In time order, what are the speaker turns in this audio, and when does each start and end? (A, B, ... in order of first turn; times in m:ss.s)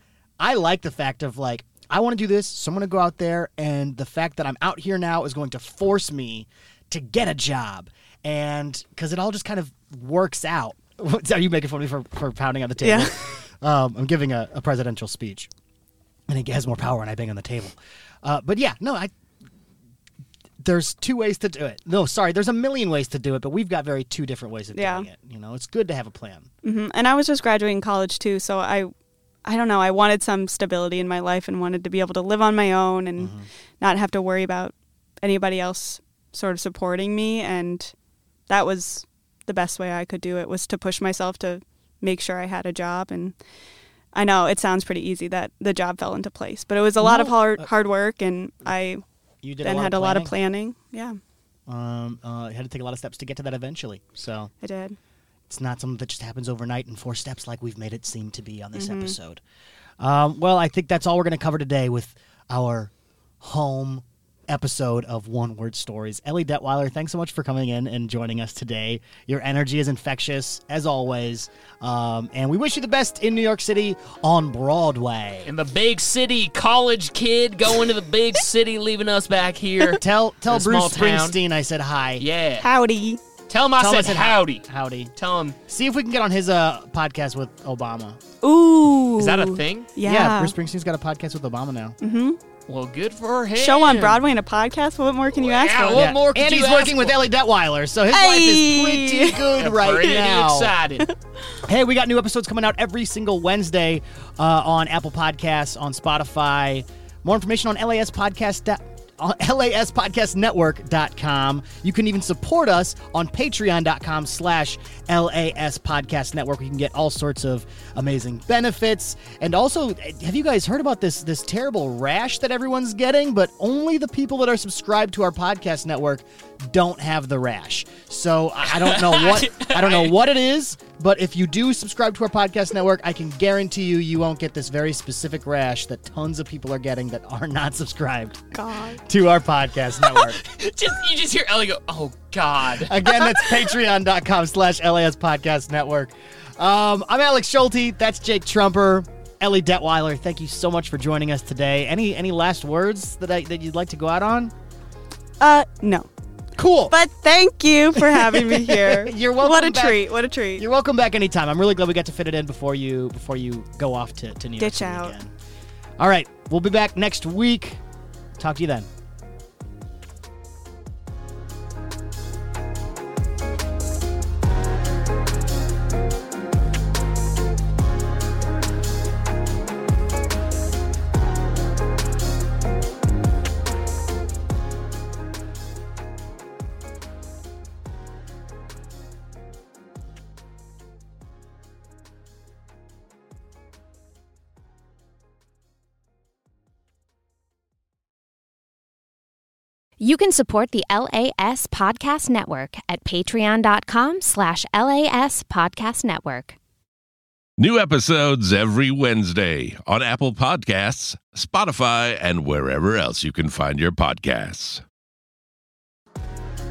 0:00.4-0:15.5 A
0:12.8-0:13.1 B
0:16.3-0:19.1 A
0:20.6-0:26.5 A
0:24.7-0:25.1 B
0:26.6-0:28.9 B
0:29.4-0:37.9 B
0:33.2-0:33.5 A
0:38.5-0:43.3 B
0:44.1-0:49.0 B
0:47.0-0:47.7 A
0:49.4-0:50.3 A
0:49.6-0:51.2 B
0:51.7-0:54.5 A
0:54.6-0:55.0 B
0:55.5-0:59.4 A
0:58.7-0:59.2 B
1:00.0-1:15.5 A
1:15.4-1:21.4 C
1:19.9-1:22.2 A
1:22.2-1:22.7 C
1:22.6-1:23.2 B
1:23.5-1:25.6 C
1:23.8-1:25.1 A
1:25.7-1:28.2 A
1:28.4-1:30.5 B
1:29.2-1:29.9 C
1:30.0-1:32.0 A
1:32.0-1:32.4 B
1:32.7-1:34.2 C
1:33.6-1:36.1 B
1:35.3-1:37.2 C
1:35.9-1:40.7 A
1:38.1-1:39.5 B
1:39.6-1:41.1 C
1:41.6-2:18.5 A
2:08.7-2:10.3 C
2:18.5-2:19.0 B
2:19.0-2:20.4 A
2:20.0-2:23.5 C
2:22.8-2:34.5 A
2:35.4-2:36.1 B
2:36.6-2:36.9 A
2:36.9-2:40.6 B
2:38.0-2:45.3 A
2:44.6-2:45.2 B
2:46.0-2:47.8 A
2:48.4-2:48.9 A
3:20.0-3:26.6 D
3:27.6-3:34.8 E